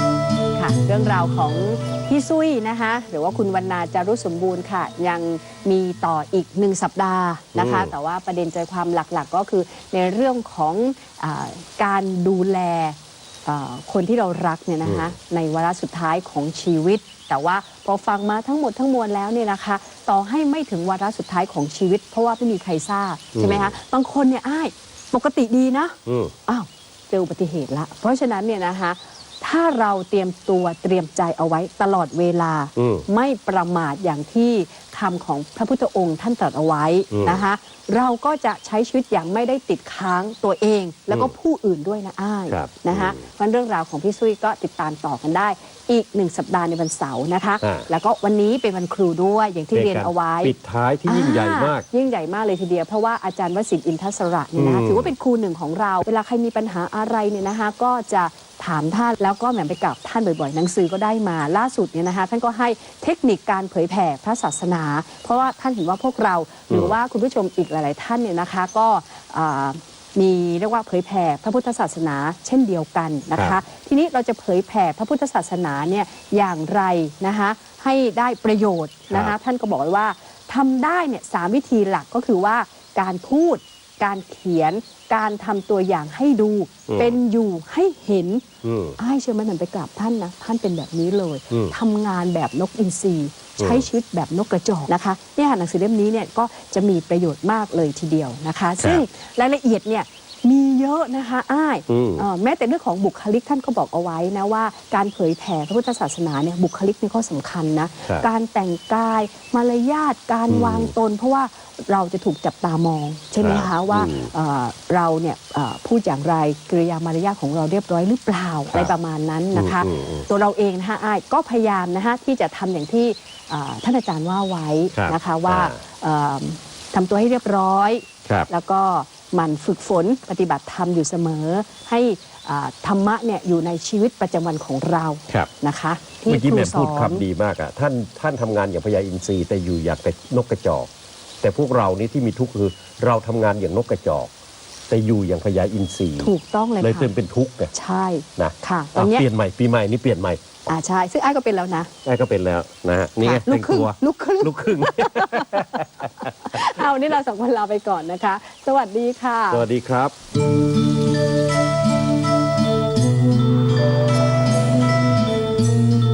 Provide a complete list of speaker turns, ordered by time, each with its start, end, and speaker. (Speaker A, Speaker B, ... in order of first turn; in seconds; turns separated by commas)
Speaker A: 0.6-25.9, Speaker B: 7.5-7.9, Speaker B: 14.8-15.1, Speaker B: 23.3-23.8, Speaker B: 26.1-26.3, Speaker A: 26.5-50.5, Speaker B: 32.8-33.0, Speaker B: 37.1-37.4, Speaker B: 42.5-43.2, Speaker B: 47.6-47.9, Speaker B: 49.7-51.8, Speaker A: 51.0-88.4, Speaker B: 54.5-55.1, Speaker B: 66.7-67.0, Speaker B: 73.3-73.6, Speaker B: 79.1-79.3, Speaker B: 86.9-87.2, Speaker B: 88.6-89.0, Speaker A: 89.0-137.2, Speaker B: 91.5-91.7, Speaker B: 93.6-93.8, Speaker B: 98.8-99.0, Speaker B: 101.9-102.2, Speaker B: 110.5-110.9, Speaker B: 113.4-114.3, Speaker B: 119.5-120.3, Speaker B: 124.9-125.8, Speaker B: 136.3-140.9, Speaker B: 141.4-144.3, Speaker B: 144.9-147.7, Speaker A: 146.2-147.1, Speaker A: 147.7-149.2, Speaker B: 148.4-150.6, Speaker A: 150.7-151.9, Speaker B: 152.0-156.6, Speaker A: 153.2-159.7, Speaker B: 159.5-160.1